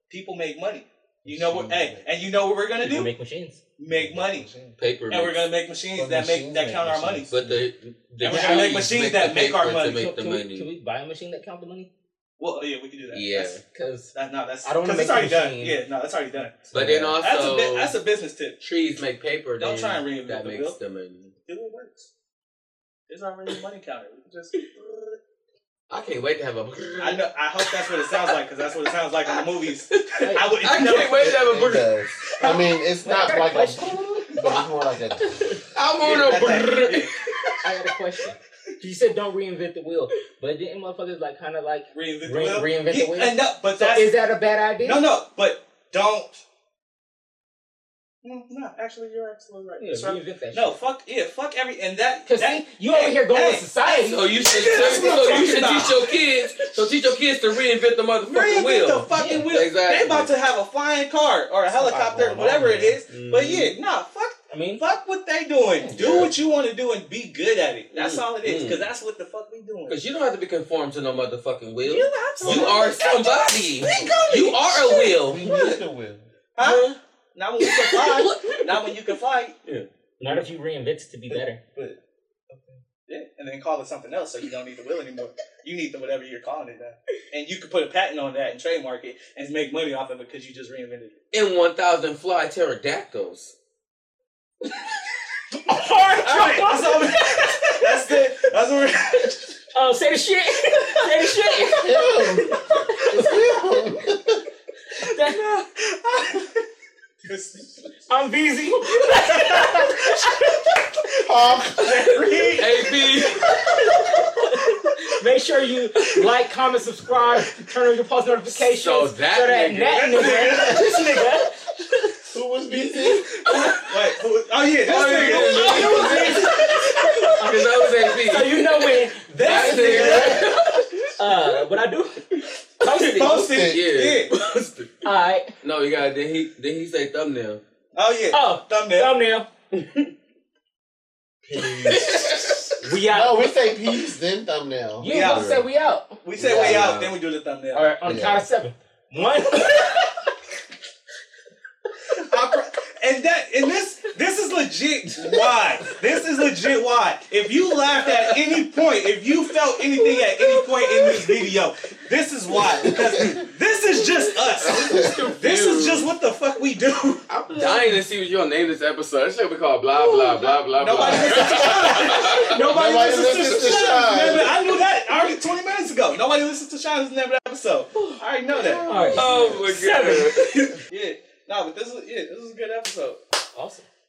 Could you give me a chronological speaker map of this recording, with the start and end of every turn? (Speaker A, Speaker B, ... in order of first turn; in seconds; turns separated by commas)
Speaker A: 0.1-3.1, Speaker B: 1.2-2.0, Speaker C: 2.8-3.6, Speaker A: 3.8-4.5, Speaker B: 3.9-4.8, Speaker D: 4.8-5.5, Speaker A: 5.1-7.3, Speaker B: 5.9-7.6, Speaker D: 7.3-10.7, Speaker A: 8.2-10.0, Speaker C: 8.2-8.7, Speaker C: 9.9-11.9, Speaker A: 12.4-13.6, Speaker D: 13.1-13.6, Speaker C: 13.7-14.1, Speaker A: 14.1-16.7, Speaker C: 14.6-15.8, Speaker C: 16.7-17.1, Speaker D: 16.7-17.9, Speaker A: 17.2-18.6, Speaker D: 18.6-21.3, Speaker A: 19.6-20.8, Speaker A: 21.5-22.1, Speaker A: 23.1-25.2, Speaker D: 25.9-28.3, Speaker A: 27.0-31.5, Speaker D: 29.3-31.9, Speaker C: 30.2-30.5, Speaker B: 31.2-35.6, Speaker C: 32.4-34.3, Speaker C: 35.2-35.6, Speaker D: 35.7-37.7, Speaker A: 36.0-37.1, Speaker C: 37.6-45.0, Speaker A: 41.9-44.1, Speaker A: 44.8-46.4, Speaker A: 48.2-53.8, Speaker C: 49.8-50.8, Speaker C: 52.2-54.2, Speaker D: 53.9-60.3, Speaker A: 54.3-56.1, Speaker C: 54.8-55.3, Speaker A: 58.2-70.0, Speaker C: 59.1-59.5, Speaker C: 61.7-62.9, Speaker D: 63.1-63.7, Speaker C: 64.5-64.8, Speaker D: 65.9-66.3, Speaker D: 67.9-68.9, Speaker D: 69.9-75.7, Speaker A: 71.8-75.8, Speaker B: 75.2-76.3, Speaker A: 76.5-79.5, Speaker D: 76.6-77.0, Speaker D: 77.6-79.1, Speaker C: 80.2-81.6, Speaker B: 81.3-82.0, Speaker B: 82.5-82.8, Speaker A: 83.1-91.2, Speaker D: 91.3-93.5, Speaker C: 95.7-98.1, Speaker A: 96.2-99.6, Speaker C: 99.7-103.3, Speaker B: 101.7-104.4, Speaker C: 105.0-105.4, Speaker A: 105.1-106.6, Speaker A: 107.2-107.8, Speaker C: 108.1-110.6, Speaker A: 109.0-110.4, Speaker B: 111.2-112.1, Speaker A: 111.8-113.1, Speaker D: 111.9-113.6, Speaker C: 113.5-121.6, Speaker D: 118.5-120.5, Speaker A: 119.9-121.4, Speaker B: 122.3-123.3, Speaker D: 123.3-124.0, Speaker A: 123.5-127.1, Speaker D: 124.8-130.9, Speaker C: 125.2-130.5, Speaker A: 129.3-130.6, Speaker B: 129.5-130.5, Speaker C: 131.2-132.2, Speaker C: 132.8-133.4, Speaker A: 132.9-134.3, Speaker B: 133.1-133.9, Speaker D: 133.6-135.0, Speaker C: 135.0-135.5, Speaker D: 135.6-137.6, Speaker A: 137.9-139.2, Speaker C: 138.3-139.5, Speaker D: 139.7-140.1, Speaker B: 141.4-145.6, Speaker C: 142.1-143.5, Speaker C: 145.0-146.2, Speaker A: 145.0-145.6, Speaker A: 146.2-147.9, Speaker B: 146.4-147.1, Speaker C: 147.7-150.2, Speaker B: 148.0-148.4, Speaker A: 152.2-167.3, Speaker D: 157.9-158.4, Speaker D: 159.9-161.2, Speaker B: 162.9-163.4, Speaker D: 164.6-166.1, Speaker B: 164.8-165.2, Speaker D: 167.3-172.6, Speaker C: 169.9-171.2, Speaker A: 170.8-178.9, Speaker B: 171.1-174.6, Speaker C: 177.9-178.2, Speaker B: 178.5-179.5, Speaker C: 178.8-180.6, Speaker D: 179.1-180.8, Speaker A: 180.9-183.2, Speaker C: 183.5-183.8